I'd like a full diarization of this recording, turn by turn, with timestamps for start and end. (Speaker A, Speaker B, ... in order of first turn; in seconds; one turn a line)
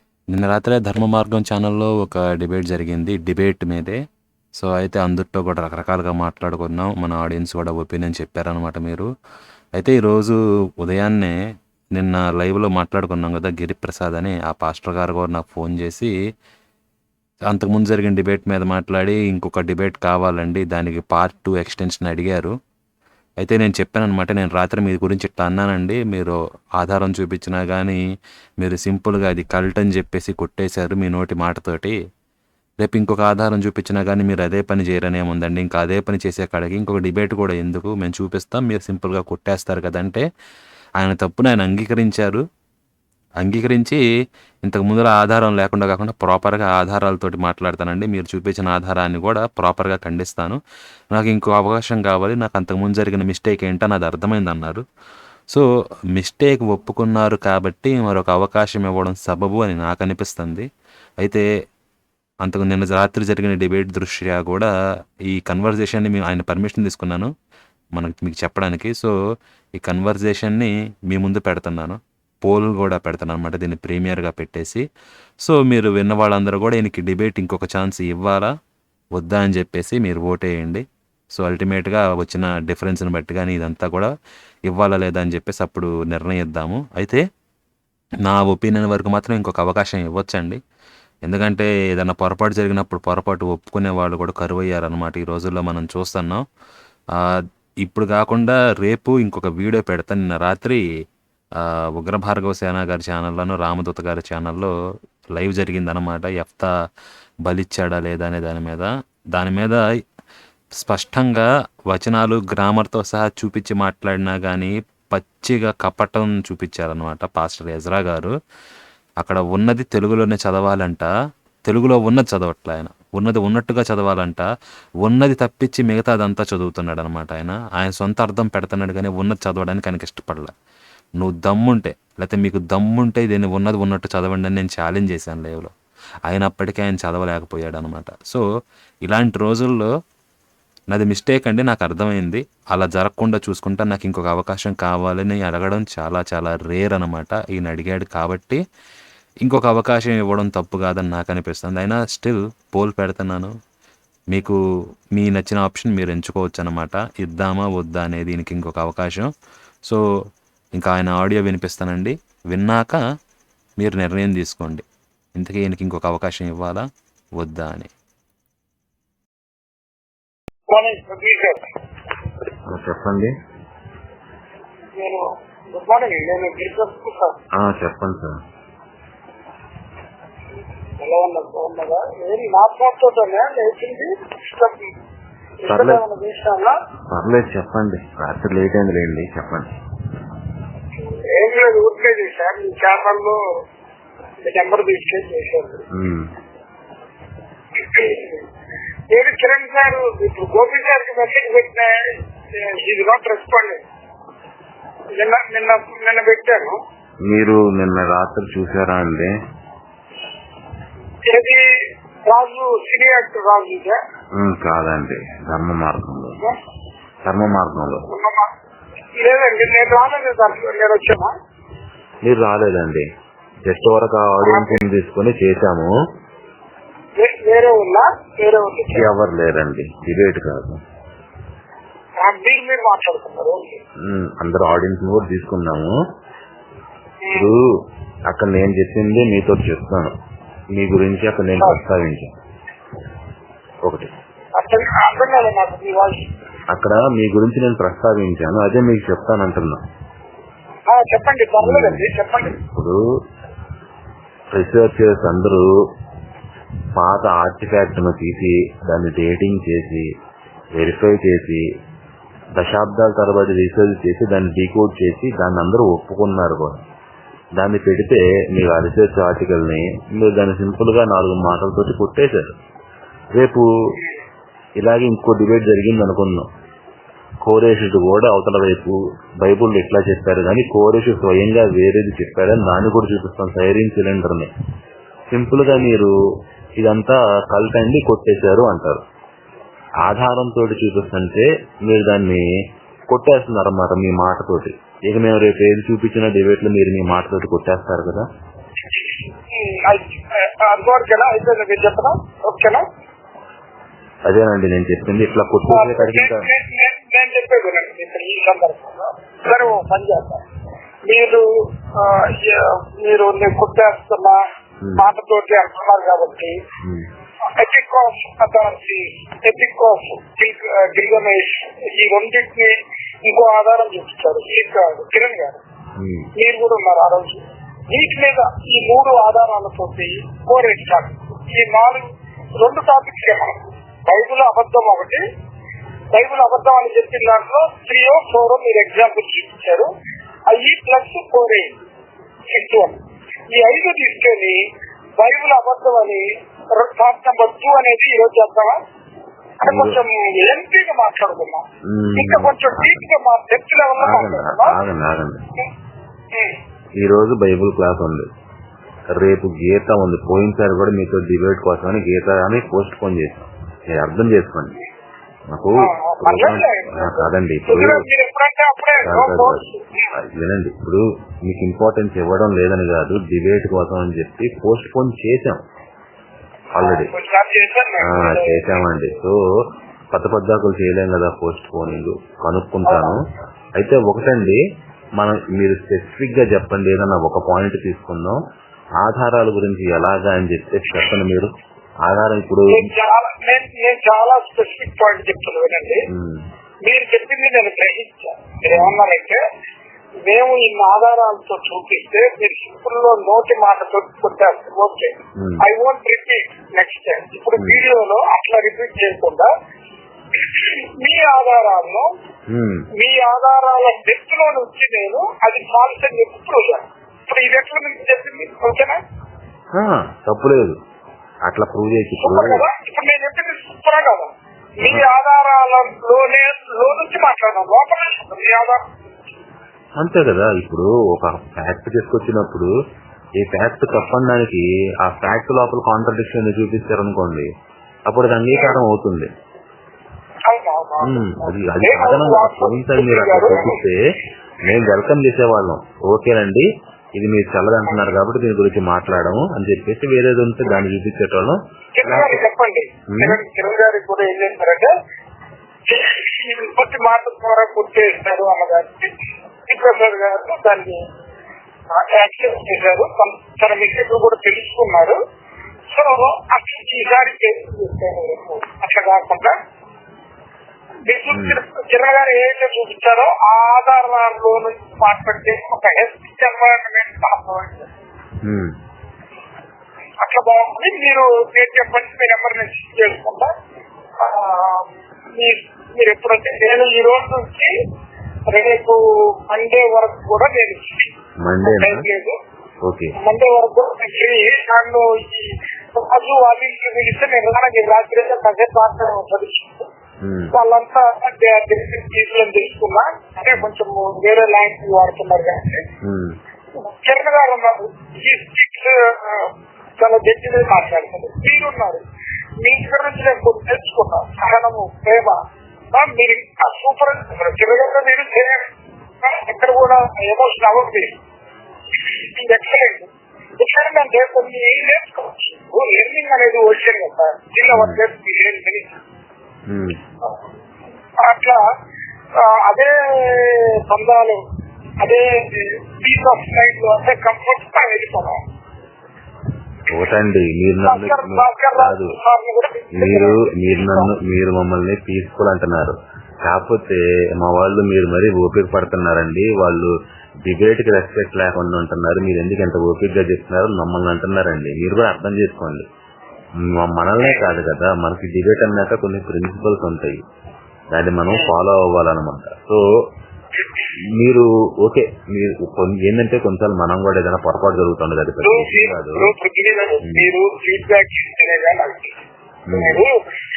Speaker A: 0.3-4.0
Speaker A: 4.5-9.1
Speaker A: 9.8-11.4
Speaker A: 11.9-16.1
Speaker A: 17.5-22.5
Speaker A: 23.4-28.0
Speaker A: 28.6-32.0
Speaker A: 32.8-40.3
Speaker A: 41.0-42.4
Speaker A: 43.4-44.0
Speaker A: 44.6-50.6
Speaker A: 51.1-54.8
Speaker A: 56.2-60.7
Speaker A: 61.2-61.5
Speaker A: 62.5-64.7
Speaker A: 65.3-67.3
Speaker A: 68.0-69.1
Speaker A: 69.8-74.8
Speaker A: 75.5-78.5
Speaker A: 79.2-80.8
Speaker A: 81.4-84.1
Speaker A: 84.7-87.2
Speaker A: 88.2-90.6
Speaker A: 91.2-96.5
Speaker A: 97.2-100.8
Speaker A: 101.6-104.7
Speaker A: 105.3-106.7
Speaker A: 107.5-109.8
Speaker A: 110.8-118.3
Speaker A: 119.2-121.1
Speaker A: 121.7-124.5
Speaker A: 125.0-130.5
Speaker A: 131.2-135.7
Speaker A: 136.3-138.4
Speaker A: 139.1-139.9
Speaker A: 140.9-148.6
Speaker A: 149.4-153.5
Speaker A: 154.3-154.6
Speaker A: 155.2-159.3
Speaker A: 160.8-163.0
Speaker A: 163.8-164.8
Speaker A: 165.3-166.8
Speaker A: 167.4-167.9
Speaker B: 170.7-171.6
Speaker C: 172.7-173.3
Speaker B: 175.0-177.4
Speaker C: 177.6-178.4
Speaker B: 181.0-184.8
Speaker B: 185.7-186.8
Speaker C: 185.7-186.0
Speaker C: 187.1-189.7
Speaker B: 191.1-193.4
Speaker B: 194.5-195.8
Speaker C: 195.9-196.3
Speaker B: 197.8-198.4
Speaker B: 199.1-203.8
Speaker B: 205.2-206.8
Speaker C: 207.2-209.3
Speaker B: 211.3-211.6
Speaker B: 212.3-214.0
Speaker C: 214.4-216.4
Speaker C: 217.2-218.1
Speaker B: 218.1-218.5
Speaker B: 219.2-221.3
Speaker C: 222.2-223.1
Speaker C: 223.7-225.9
Speaker B: 224.4-224.8
Speaker B: 227.2-229.1
Speaker C: 228.9-230.8
Speaker B: 232.2-233.8
Speaker C: 234.0-235.9
Speaker C: 237.3-237.6
Speaker C: 238.3-240.1
Speaker C: 240.8-242.3
Speaker C: 243.8-244.1
Speaker B: 244.6-246.3
Speaker C: 246.7-249.8
Speaker B: 250.9-252.6
Speaker C: 251.6-253.0
Speaker C: 254.5-255.7
Speaker C: 256.9-260.1
Speaker C: 260.8-261.6
Speaker C: 262.6-266.8
Speaker C: 267.6-272.6
Speaker C: 273.3-273.9
Speaker C: 274.8-276.5
Speaker C: 277.4-284.5
Speaker C: 285.3-286.1
Speaker C: 286.8-289.0
Speaker C: 290.0-292.5
Speaker C: 293.1-298.3
Speaker B: 299.5-302.9
Speaker C: 304.3-306.5
Speaker B: 305.7-310.4
Speaker B: 311.1-314.4
Speaker B: 315.0-316.6
Speaker C: 316.8-317.1
Speaker B: 317.6-325.6
Speaker C: 326.0-326.3
Speaker B: 326.4-332.1
Speaker B: 332.6-335.2
Speaker B: 336.1-339.9
Speaker B: 340.5-341.7
Speaker B: 342.5-343.0
Speaker B: 343.5-344.6
Speaker B: 345.2-348.8
Speaker B: 349.6-351.6
Speaker C: 349.6-350.0
Speaker C: 351.9-353.1
Speaker B: 352.2-354.8
Speaker C: 354.0-355.5
Speaker C: 357.0-358.3
Speaker C: 359.1-364.8
Speaker C: 365.5-368.0
Speaker B: 365.8-370.1
Speaker C: 369.0-375.6
Speaker C: 376.8-377.1
Speaker B: 376.8-378.9
Speaker C: 378.0-379.4
Speaker C: 380.1-383.2
Speaker B: 382.9-383.2
Speaker C: 383.8-384.6
Speaker C: 385.2-388.4
Speaker C: 389.0-391.5
Speaker C: 392.1-392.9
Speaker B: 392.7-396.0
Speaker C: 396.1-396.4
Speaker B: 396.9-399.4
Speaker C: 398.7-399.0
Speaker B: 400.3-409.5
Speaker C: 407.6-407.8
Speaker B: 410.4-412.1
Speaker C: 412.5-412.9
Speaker B: 413.0-419.0
Speaker C: 419.7-420.8
Speaker C: 421.4-422.6
Speaker B: 422.2-424.3
Speaker C: 424.8-425.1
Speaker B: 424.8-428.8
Speaker C: 430.0-432.7
Speaker C: 433.4-437.5
Speaker C: 438.1-439.3
Speaker B: 438.5-438.8
Speaker B: 440.5-443.8
Speaker C: 441.0-444.0
Speaker C: 444.6-452.4
Speaker B: 452.0-454.9
Speaker C: 453.1-453.4
Speaker B: 455.9-459.1
Speaker B: 459.7-461.0
Speaker B: 461.9-465.2
Speaker B: 465.9-469.6
Speaker B: 471.1-477.9
Speaker C: 471.3-471.6
Speaker C: 478.4-478.7
Speaker B: 480.2-483.5
Speaker B: 484.2-484.9
Speaker B: 485.4-487.7
Speaker B: 488.5-491.1
Speaker C: 491.4-492.1
Speaker B: 491.6-492.4
Speaker C: 492.8-493.1
Speaker B: 493.2-499.9
Speaker C: 500.2-500.5
Speaker B: 500.5-505.9
Speaker C: 506.0-506.4
Speaker B: 506.8-512.0
Speaker B: 512.6-515.4
Speaker B: 515.9-518.7
Speaker B: 519.2-521.2
Speaker B: 522.4-529.0
Speaker C: 527.7-528.0
Speaker C: 529.7-530.0
Speaker B: 531.2-531.6
Speaker B: 532.4-534.4
Speaker B: 535.0-538.4
Speaker C: 539.9-542.1
Speaker B: 540.8-544.1
Speaker C: 543.0-549.9
Speaker C: 550.5-555.9
Speaker C: 556.6-560.2
Speaker C: 560.9-562.8
Speaker C: 564.1-569.3
Speaker B: 568.4-572.1
Speaker C: 570.0-570.3
Speaker C: 572.7-573.0
Speaker B: 572.7-573.2